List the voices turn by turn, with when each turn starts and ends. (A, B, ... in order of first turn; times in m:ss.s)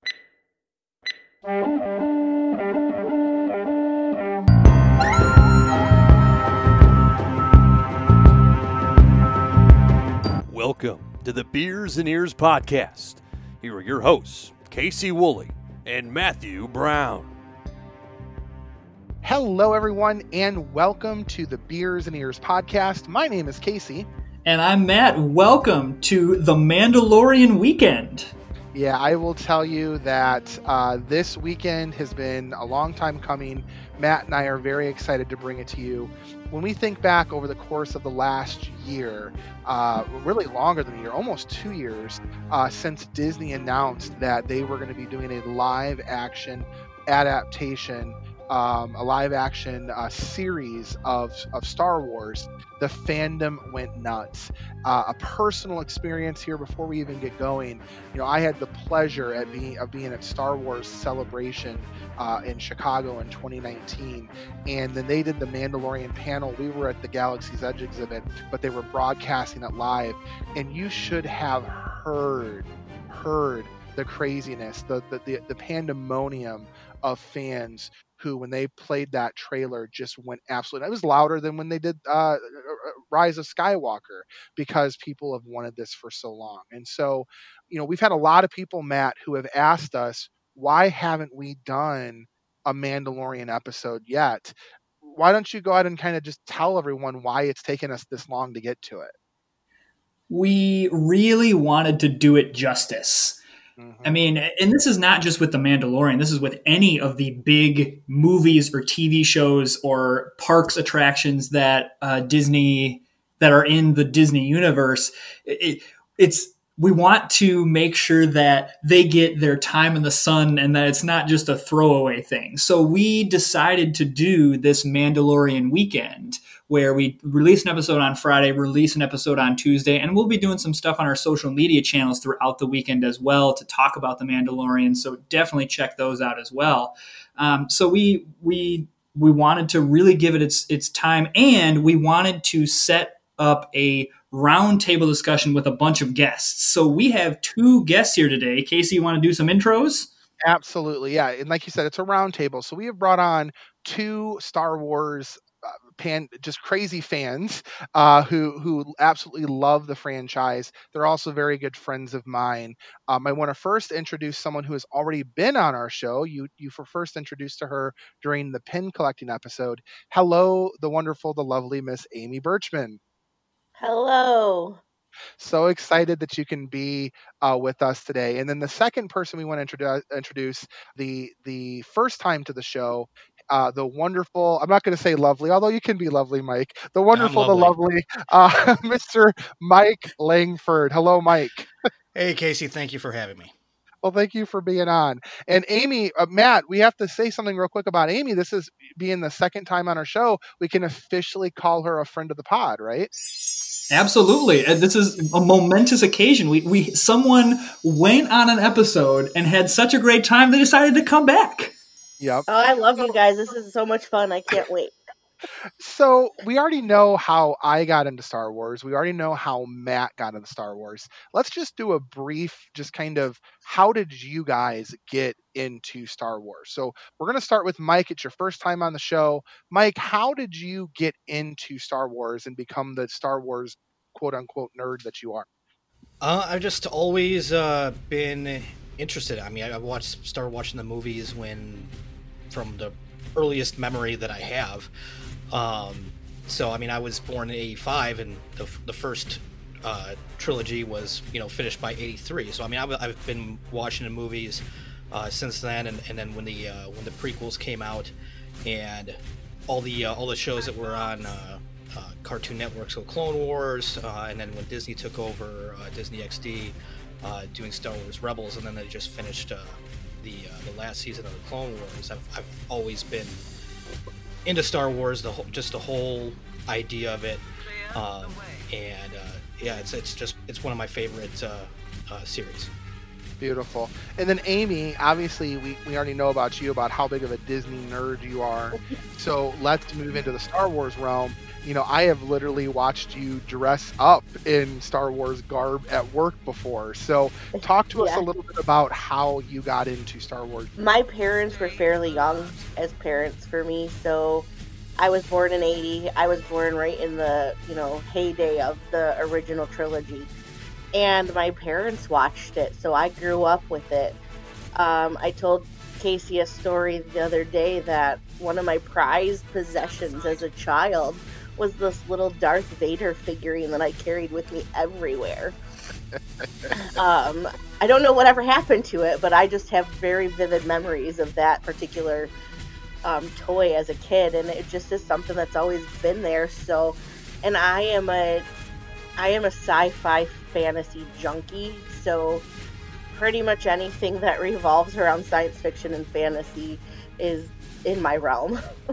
0:10.5-0:17.4 A
0:19.2-0:24.1 B
0:24.4-0:28.3 C
0:28.7-1:39.1 B
1:40.3-1:43.4 C
1:43.8-1:44.2 B
1:44.0-2:30.1 C
2:30.4-2:53.0 B
2:53.8-2:54.8 D
2:55.4-3:11.7 B
3:07.1-3:07.7 E
3:12.1-3:13.5 E
3:14.0-3:23.1 B
3:23.9-3:31.7 C
3:32.2-3:32.5 B
3:32.5-3:34.9 D
3:35.8-3:55.5 B
3:56.2-4:01.9 E
4:02.5-4:04.9 E
4:05.5-4:33.4 E
4:34.4-4:42.7 E
4:43.4-5:00.8 B
4:57.6-4:58.2 D
5:00.8-5:10.3 D
5:10.9-5:14.2 D
5:14.8-5:25.6 D
5:26.7-5:32.3 D
5:33.0-5:38.5 D
5:39.2-5:42.4 D
5:43.1-5:48.6 D